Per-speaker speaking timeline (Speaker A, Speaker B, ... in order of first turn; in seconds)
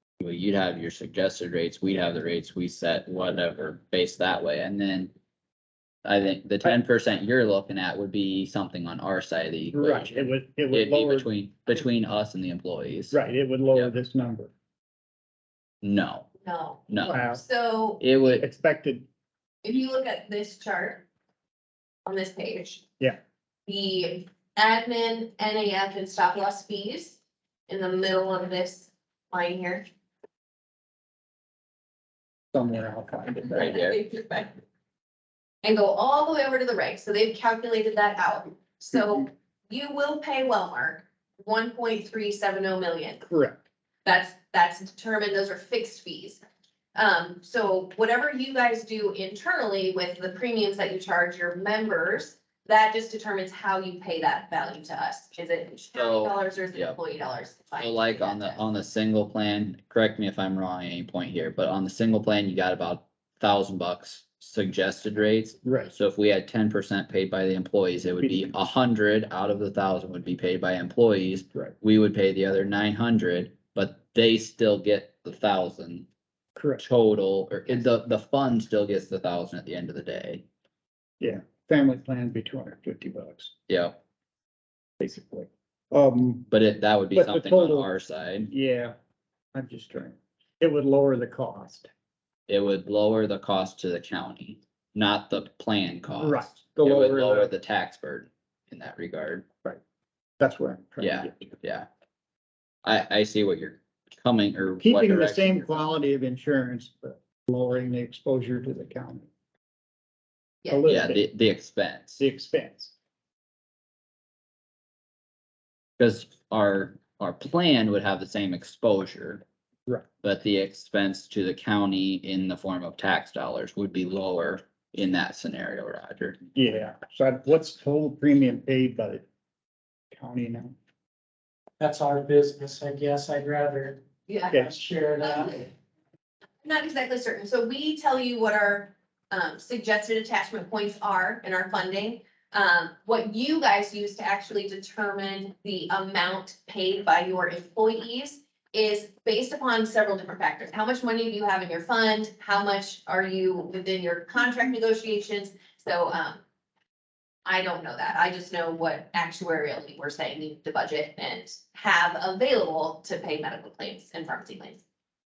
Speaker A: 0.2-5.1, 6.0-13.2, 15.8-16.3, 16.9-17.2, 18.0-18.4, 33.5-34.0, 55.9-57.0, 57.8-76.1, 76.8-80.4, 83.7-84.0, 86.5-88.5, 92.5-99.5, 101.0-101.9, 102.8-105.7, 110.9-112.2, 116.0-119.4, 120.2-126.4
Speaker B: 9.7-11.3, 13.1-14.5, 17.0-17.4, 18.4-19.0, 32.5-33.7, 43.2-43.6, 65.6-65.9, 76.5-76.8, 81.2-83.5, 85.0-86.5, 87.1-87.9, 88.5-88.9, 89.5-91.9, 96.1-97.5, 100.4-101.5, 104.8-109.3, 110.7-111.2, 112.2-112.9, 126.5-129.2, 130.1-130.7
Speaker C: 16.4-18.0, 19.6-21.0, 22.1-22.8, 23.7-29.8, 33.5-34.6, 35.6-43.2, 44.0-46.4, 46.9-58.6, 134.3-134.7, 135.2-135.6, 136.6-156.4, 157.4-164.8
Speaker D: 131.8-134.0, 134.5-135.7